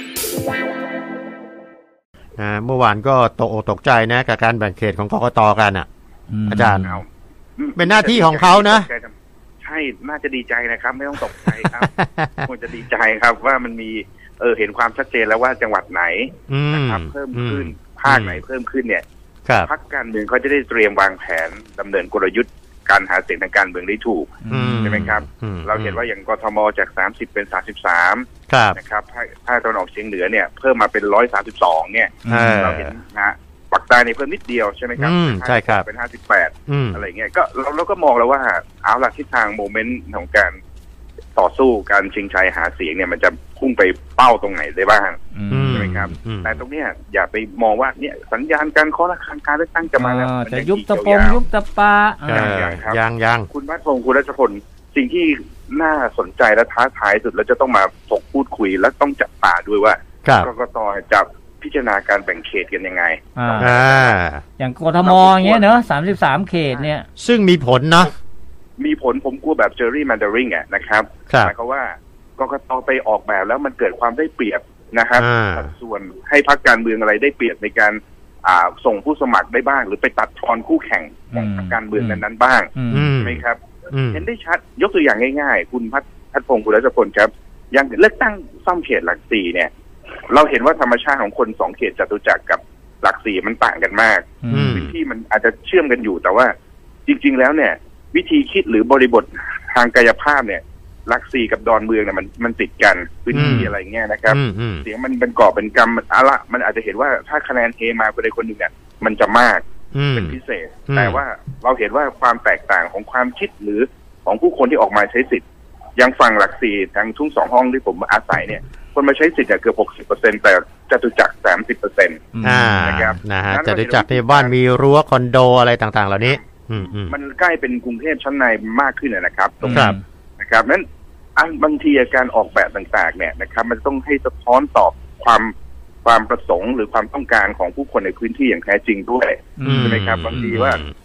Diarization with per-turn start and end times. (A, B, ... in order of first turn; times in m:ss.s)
0:02.4-0:05.9 A
0:06.3-0:07.0 B
0:06.5-0:07.0 A
0:06.8-0:07.0 C
0:07.6-0:11.9 C
0:07.8-0:08.9 A
0:11.4-0:12.5 A
0:12.4-0:19.0 C
0:16.5-0:18.4 A
0:19.6-0:40.6 C
0:24.4-0:25.0 B
0:24.5-0:26.0 A
0:28.5-0:28.8 A
0:32.2-0:32.7 B
0:32.3-0:32.9 A
0:35.0-0:35.9 A
0:36.7-0:37.0 A
0:41.4-0:51.4 C
0:45.3-0:46.1 B
0:45.5-0:46.6 A
0:50.0-0:52.6 B
0:52.3-0:53.5 A
0:52.3-1:04.1 C
1:00.2-1:00.5 A
1:03.4-1:03.7 B
1:03.6-1:04.4 A
1:04.6-1:07.1 B
1:05.0-1:05.7 C
1:07.2-1:08.1 A
1:08.8-1:23.6 C
1:15.2-1:15.7 A
1:21.3-1:22.2 B
1:22.8-1:23.1 B
1:22.9-1:24.2 A
1:24.1-1:29.7 C
1:30.3-1:36.5 C
1:34.4-1:34.8 B
1:34.5-1:34.9 A
1:37.0-1:49.6 C
1:43.3-1:43.7 A
1:43.3-1:43.7 B
1:44.3-1:44.8 A
1:49.9-1:50.4 A
1:50.1-1:55.4 C
1:50.9-1:51.2 A
1:56.0-2:02.2 C
2:02.3-2:03.0 B
2:02.4-2:07.1 A
2:02.8-2:04.5 C
2:06.2-2:10.8 C
2:09.6-2:10.0 B
2:09.7-2:10.0 A
2:11.4-2:15.5 C
2:16.0-2:20.8 C
2:19.6-2:20.5 B
2:19.6-2:20.9 A